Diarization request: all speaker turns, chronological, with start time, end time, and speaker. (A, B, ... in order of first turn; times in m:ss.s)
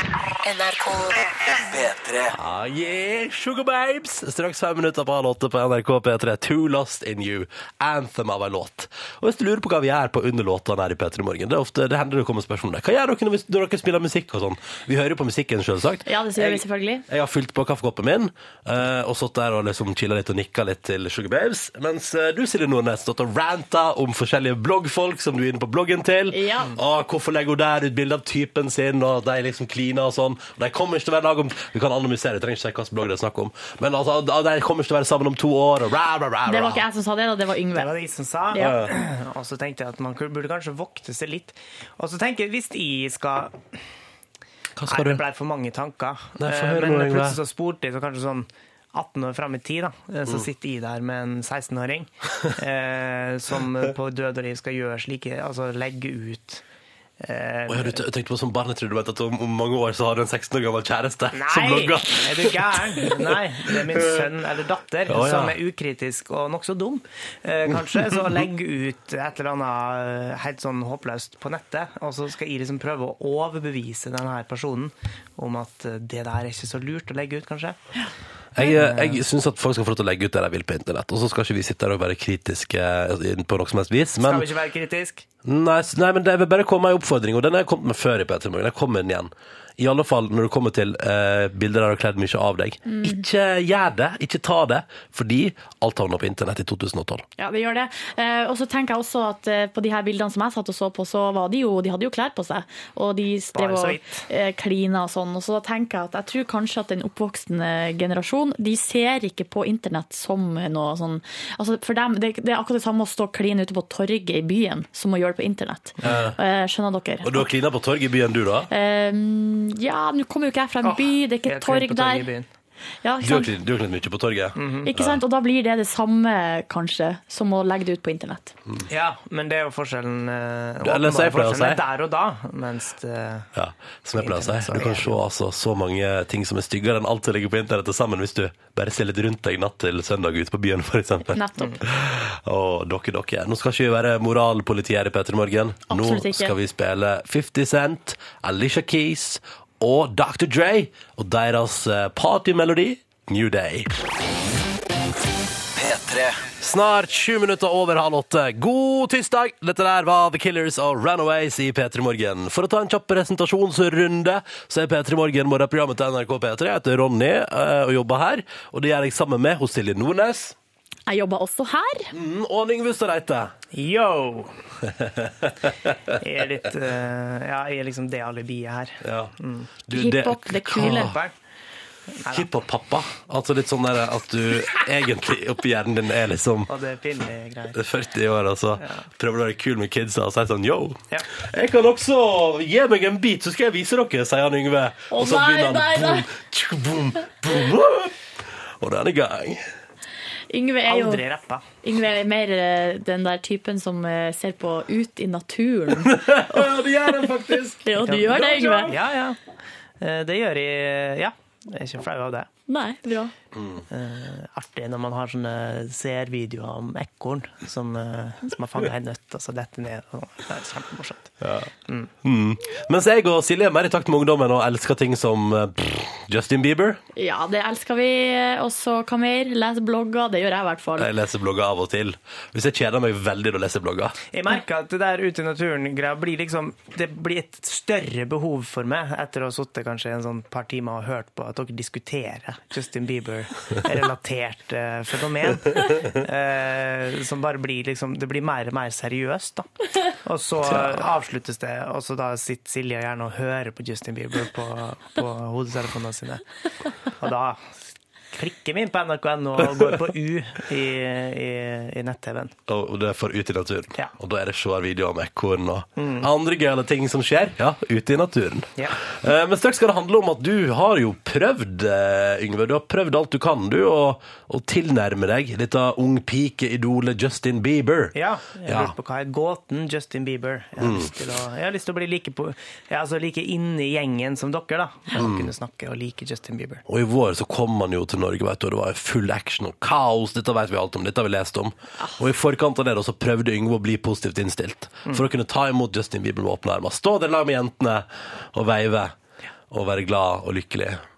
0:00.4-0:02.2 A
0:02.3-0:36.8 B
0:16.1-0:17.0 C
0:26.3-0:26.7 C
0:36.5-0:37.9 C
0:37.7-0:43.6 D
0:38.6-0:38.9 B
0:44.8-0:45.2 B
0:44.9-0:56.6 D
0:46.4-0:47.4 B
0:57.2-0:58.0 D
0:57.7-1:03.3 B
1:01.3-1:17.8 D
1:03.9-1:04.2 B
1:05.1-1:05.6 B
1:18.6-1:24.5 B
1:18.6-1:19.2 D
1:24.2-1:25.2 D
1:25.4-1:37.2 B
1:32.9-1:33.2 C
1:37.4-1:57.5 C
1:43.6-1:44.2 D
1:56.0-1:56.4 B
1:57.2-1:58.7 B
1:58.7-2:02.3 C
2:00.8-2:02.5 D
2:03.0-2:03.5 C
2:03.2-2:05.2 B
2:04.6-2:04.9 D
2:04.8-2:08.6 C
2:08.9-2:13.5 D
2:10.8-2:11.8 B
2:13.6-2:33.9 B
2:14.2-2:15.2 D
2:21.3-2:21.8 C
2:25.9-2:26.5 C
2:35.8-2:36.3 A
2:36.6-2:50.6 B
2:51.1-2:52.1 C
2:52.1-2:53.5 B
2:53.7-2:54.5 D
2:55.1-2:55.7 B
2:56.2-2:59.7 D
2:59.0-2:59.3 B
2:59.9-3:01.2 B
2:59.9-3:01.2 C
3:00.8-3:01.3 D
3:02.2-3:02.5 D
3:02.3-3:06.7 B
3:06.7-3:07.8 D
3:07.8-3:18.1 B
3:08.8-3:09.1 D
3:15.1-3:16.3 C
3:18.8-3:19.6 B
3:20.5-3:21.2 C
3:20.9-3:21.6 D
3:21.8-3:29.0 C
3:26.0-3:28.9 B
3:28.1-3:29.4 D
3:30.0-3:32.5 D
3:32.7-3:33.3 C
3:33.9-3:41.3 D
3:41.4-3:41.7 B
3:42.2-3:47.0 B
3:47.2-3:51.1 C
3:51.0-3:54.2 B
3:54.3-4:16.4 D
4:10.7-4:11.0 B
4:17.2-4:17.8 D
4:18.3-4:22.5 D
4:22.7-4:38.1 B
4:26.0-4:26.3 D
4:38.1-4:46.8 D
4:38.7-4:38.9 B
4:40.8-4:41.1 B
4:45.2-4:45.5 B
4:46.9-4:59.2 B
4:59.7-5:01.0 B